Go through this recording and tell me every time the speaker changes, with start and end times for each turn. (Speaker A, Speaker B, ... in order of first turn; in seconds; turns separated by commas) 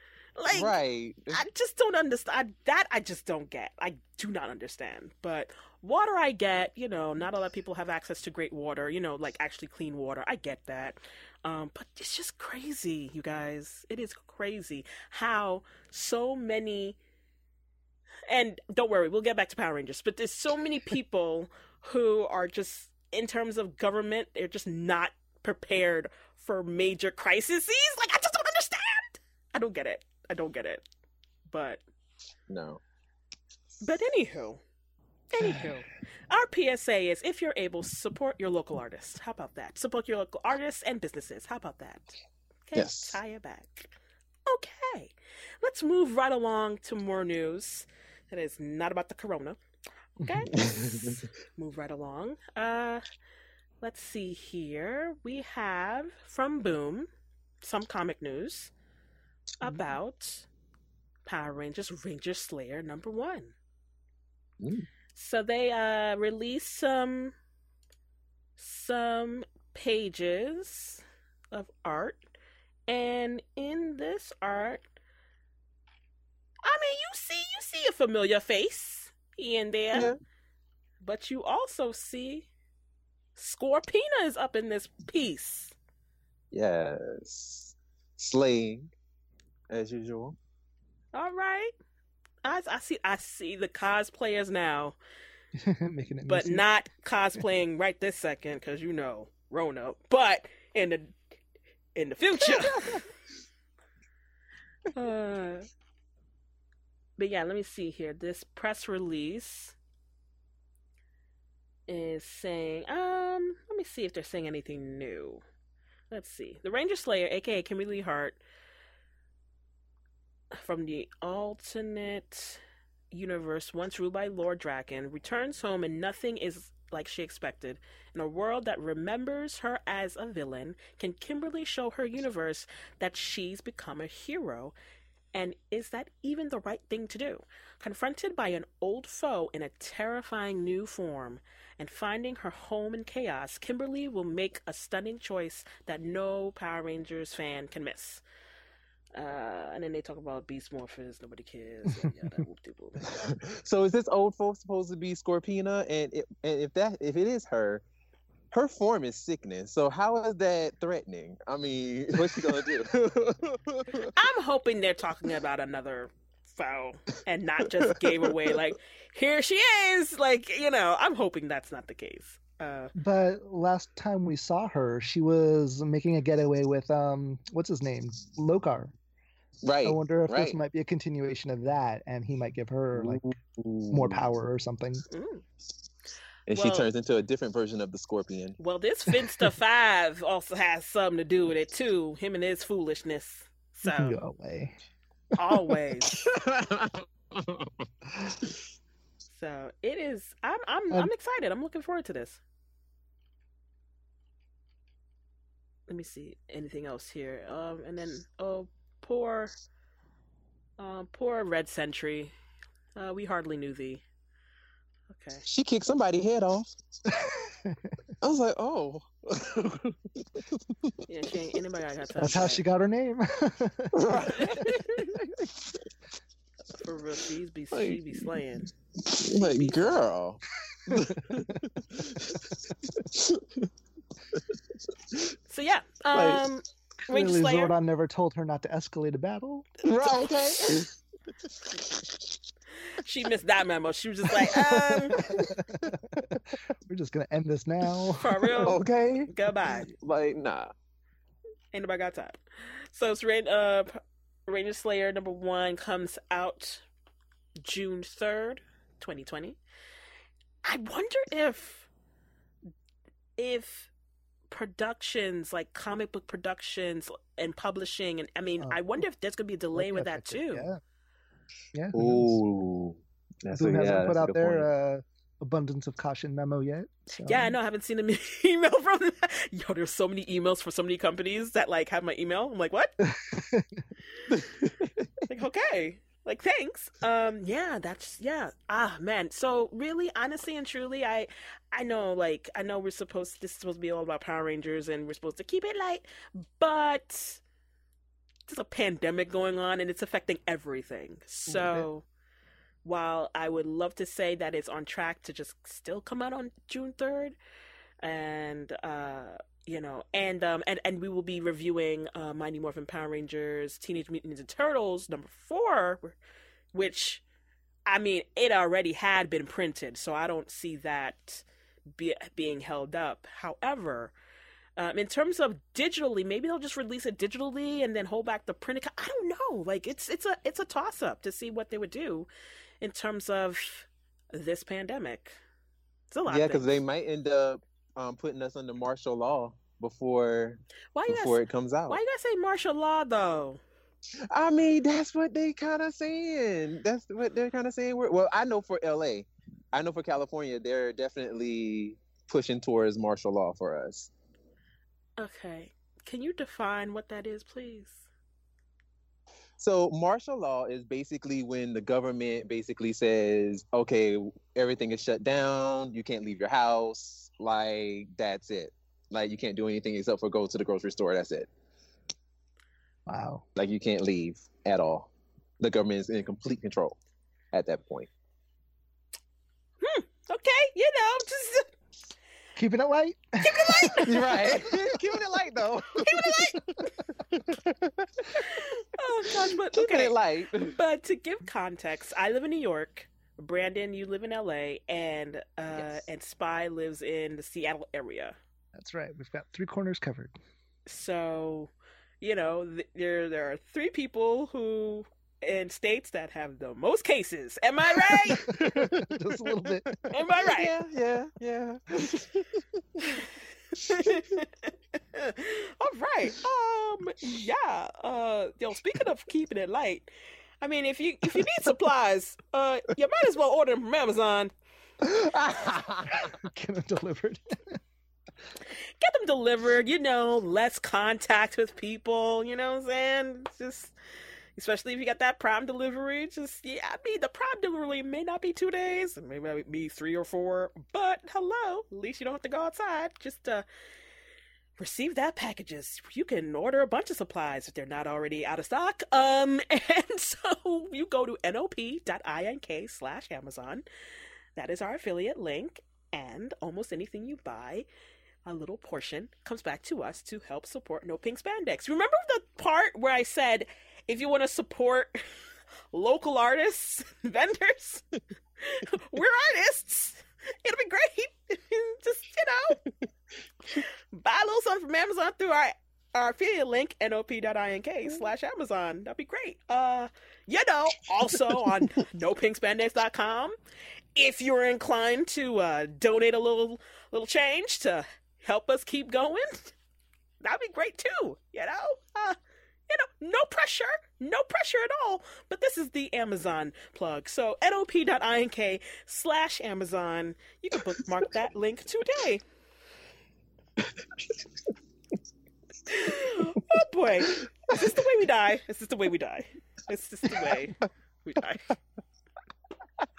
Speaker A: 0.4-0.7, Speaker B: 0.5-1.4, Speaker A: 1.3-17.0, Speaker A: 18.3-30.8, Speaker A: 31.5-31.8, Speaker B: 32.5-32.8, Speaker A: 33.8-34.6, Speaker A: 35.3-42.2, Speaker A: 42.7-43.9, Speaker B: 42.7-43.2, Speaker A: 44.5-49.6, Speaker A: 50.2-53.0, Speaker C: 50.2-50.5, Speaker B: 50.5-51.2, Speaker A: 53.8-57.1, Speaker A: 57.6-58.7, Speaker A: 59.6-60.5, Speaker A: 61.2-63.5, Speaker B: 64.6-64.9, Speaker A: 65.1-67.3, Speaker A: 68.6-72.2, Speaker A: 72.9-74.8, Speaker A: 76.6-80.1, Speaker A: 81.0-82.5, Speaker A: 83.3-85.8, Speaker B: 86.5-88.9, Speaker B: 89.7-90.4, Speaker A: 91.1-91.7, Speaker A: 92.4-95.0, Speaker C: 95.5-96.6, Speaker A: 96.3-101.2, Speaker A: 102.0-103.1, Speaker A: 104.9-105.7, Speaker A: 107.2-109.8, Speaker A: 111.9-115.4, Speaker A: 116.1-118.4, Speaker A: 120.5-134.7, Speaker A: 135.3-148.2, Speaker A: 149.2-153.3, Speaker B: 153.0-157.8, Speaker B: 158.5-164.1, Speaker A: 164.1-172.9, Speaker B: 168.1-168.6, Speaker C: 172.9-178.9, Speaker B: 179.6-180.6, Speaker C: 179.8-183.2, Speaker B: 182.9-184.2, Speaker C: 183.9-185.0, Speaker A: 185.1-185.4, Speaker B: 186.5-188.6, Speaker A: 186.5-186.9, Speaker A: 188.6-194.2, Speaker C: 193.8-194.7, Speaker A: 195.3-196.2, Speaker B: 196.1-198.6, Speaker A: 199.3-202.4, Speaker A: 205.9-209.5, Speaker A: 210.8-212.3, Speaker A: 212.9-214.0, Speaker A: 215.1-215.4, Speaker B: 215.4-216.8, Speaker C: 217.6-217.9, Speaker B: 218.2-220.9, Speaker A: 221.1-222.6, Speaker C: 222.2-224.5, Speaker B: 223.9-225.5, Speaker A: 224.2-225.1, Speaker A: 226.7-228.7, Speaker B: 227.7-228.2, Speaker B: 229.0-233.7, Speaker A: 229.4-230.0, Speaker C: 230.9-231.6, Speaker A: 235.5-237.7, Speaker B: 236.1-236.4, Speaker C: 237.1-239.7, Speaker B: 239.8-240.9, Speaker A: 240.3-240.8, Speaker A: 243.0-245.2, Speaker B: 244.3-245.9, Speaker C: 245.1-248.8, Speaker A: 248.2-249.9, Speaker B: 248.6-250.7, Speaker A: 251.7-256.8, Speaker A: 257.6-259.6, Speaker A: 260.6-261.9, Speaker A: 263.4-263.9, Speaker A: 264.5-270.7, Speaker C: 269.7-270.8, Speaker C: 271.7-272.4, Speaker B: 271.9-274.6, Speaker C: 273.5-277.6, Speaker A: 277.2-282.9, Speaker C: 283.1-283.9, Speaker B: 284.3-285.1, Speaker A: 285.3-297.4, Speaker A: 298.5-302.1, Speaker C: 301.5-301.9, Speaker A: 302.8-307.4, Speaker A: 308.0-316.2, Speaker A: 316.7-317.2, Speaker A: 317.9-321.4, Speaker A: 321.9-324.1, Speaker A: 324.8-332.3, Speaker A: 332.8-335.4, Speaker A: 336.1-336.8, Speaker B: 336.3-342.0, Speaker A: 340.9-343.6, Speaker B: 344.3-354.1, Speaker A: 355.2-358.1, Speaker B: 359.6-371.5, Speaker C: 373.1-373.4, Speaker B: 373.6-377.0, Speaker B: 377.5-378.1, Speaker A: 379.8-381.7, Speaker C: 382.6-384.1, Speaker A: 383.4-384.6, Speaker B: 384.0-386.6, Speaker A: 385.9-386.9, Speaker B: 387.3-388.5, Speaker A: 388.3-398.4, Speaker B: 389.3-390.8, Speaker C: 398.7-400.4, Speaker A: 400.9-408.6, Speaker B: 408.3-413.2, Speaker C: 408.4-409.9, Speaker A: 410.1-410.7, Speaker A: 413.2-424.5, Speaker B: 425.0-426.3, Speaker C: 426.4-427.8, Speaker A: 428.6-433.9, Speaker A: 434.6-443.6, Speaker A: 444.8-453.9, Speaker A: 454.6-457.9, Speaker A: 458.4-465.3, Speaker A: 465.9-468.1, Speaker A: 468.6-472.8, Speaker A: 473.7-483.6, Speaker A: 484.1-489.7, Speaker A: 490.4-492.4, Speaker A: 492.9-502.4, Speaker A: 505.9-511.8, Speaker B: 510.3-510.6